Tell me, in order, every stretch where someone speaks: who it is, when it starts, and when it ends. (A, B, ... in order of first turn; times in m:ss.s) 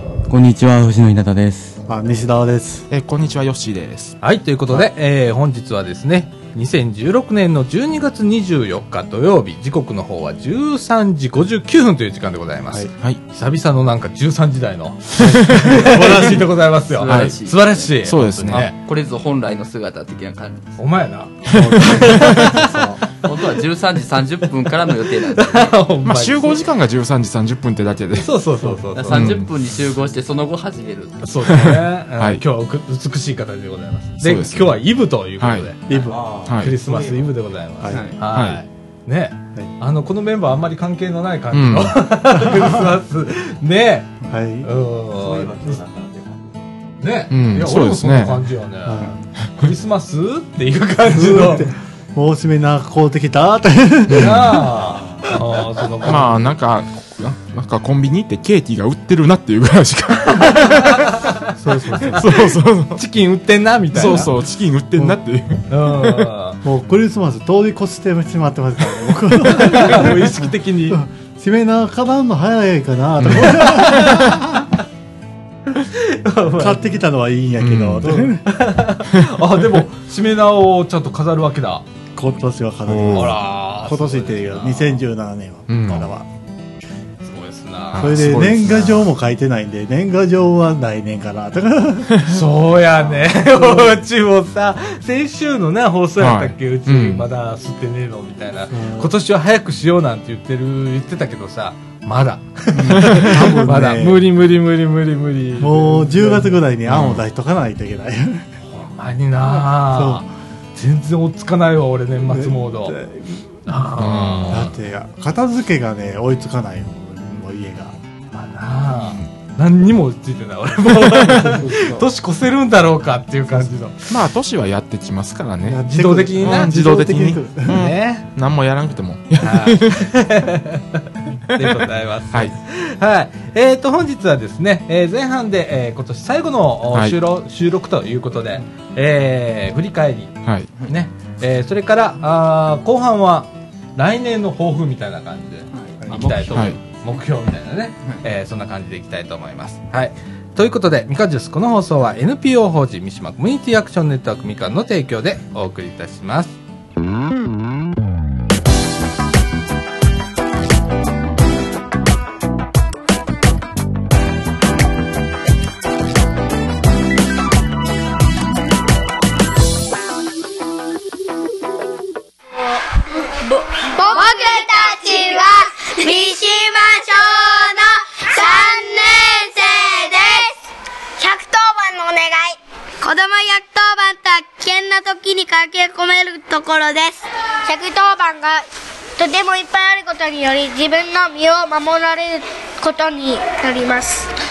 0:00.3-0:01.8 A
0:01.9-0:02.9 B
0:02.9-0:04.2 C
0:04.2-0:18.7 D
0:15.2-0:16.5 B
0:17.0-0:17.9 E
0:17.0-0:17.3 C
0:18.0-0:18.7 C
0:18.5-0:20.8 E
0:20.8-0:23.6 D
0:21.5-0:23.0 B
0:21.5-0:22.5 C
0:23.2-0:25.7 E
0:24.6-0:26.7 D
0:26.0-0:28.3 C
0:28.1-0:29.3 D
0:28.9-0:31.2 E
0:29.1-0:29.5 C
0:31.2-0:45.8 D
0:31.5-0:32.4 C
0:34.2-0:34.8 C
0:35.4-0:35.7 C
0:35.9-0:36.2 B
0:36.0-0:37.3 A
0:36.4-0:36.7 C
0:37.8-0:38.1 B
0:37.9-0:38.2 E
0:38.3-0:38.6 C
0:41.5-0:42.0 C
0:44.2-0:44.7 B
0:45.1-0:46.6 A
0:47.0-0:51.7 D
0:47.3-0:48.5 C
0:48.8-0:49.3 B
0:51.0-0:54.6 B
0:54.1-0:54.6 C
0:54.2-0:56.5 D
0:54.8-0:55.6 A
0:56.0-1:01.2 C
1:00.3-1:04.3 D
1:01.6-1:02.2 B
1:02.0-1:03.0 C
1:03.9-1:06.3 C
1:05.7-1:06.6 D
1:06.6-1:14.7 B
1:09.5-1:11.0 D
1:13.2-1:14.4 C
1:13.4-1:14.3 D
1:15.7-1:16.9 D
1:16.5-1:18.5 B
1:17.6-1:18.2 C
1:18.0-1:21.8 D
1:19.1-1:19.8 C
1:22.2-1:26.3 B
1:22.9-1:23.4 C
1:23.1-1:25.0 D
1:25.7-1:26.1 C
1:27.2-1:28.4 D
1:27.9-1:29.1 C
1:27.9-1:32.2 B
1:32.1-1:32.4 C
1:32.2-1:46.6 D
1:33.4-1:34.0 B
1:36.2-1:37.2 C
1:38.7-1:39.1 B
1:42.9-1:44.3 B
1:43.1-1:43.5 C
1:45.6-1:48.5 B
1:46.8-1:47.2 C
1:48.7-1:53.0 D
1:49.5-1:50.3 B
1:52.2-1:53.8 B
1:53.6-1:54.7 D
1:54.0-1:54.7 C
1:54.4-1:58.0 B
1:58.3-2:04.2 D
1:58.9-1:59.3 C
2:00.9-2:01.6 C
2:01.3-2:02.1 B
2:04.1-2:10.1 C
2:05.6-2:07.8 B
2:05.8-2:06.8 D
2:07.7-2:08.2 D
2:09.4-2:36.6 D
2:11.5-2:12.5 C
2:16.9-2:17.2 C
2:20.4-2:20.7 C
2:25.7-2:26.8 E
2:26.0-2:26.4 B
2:26.5-2:26.8 C
2:53.4-3:00.6 F
3:01.2-3:08.6 F
3:09.2-3:14.3 F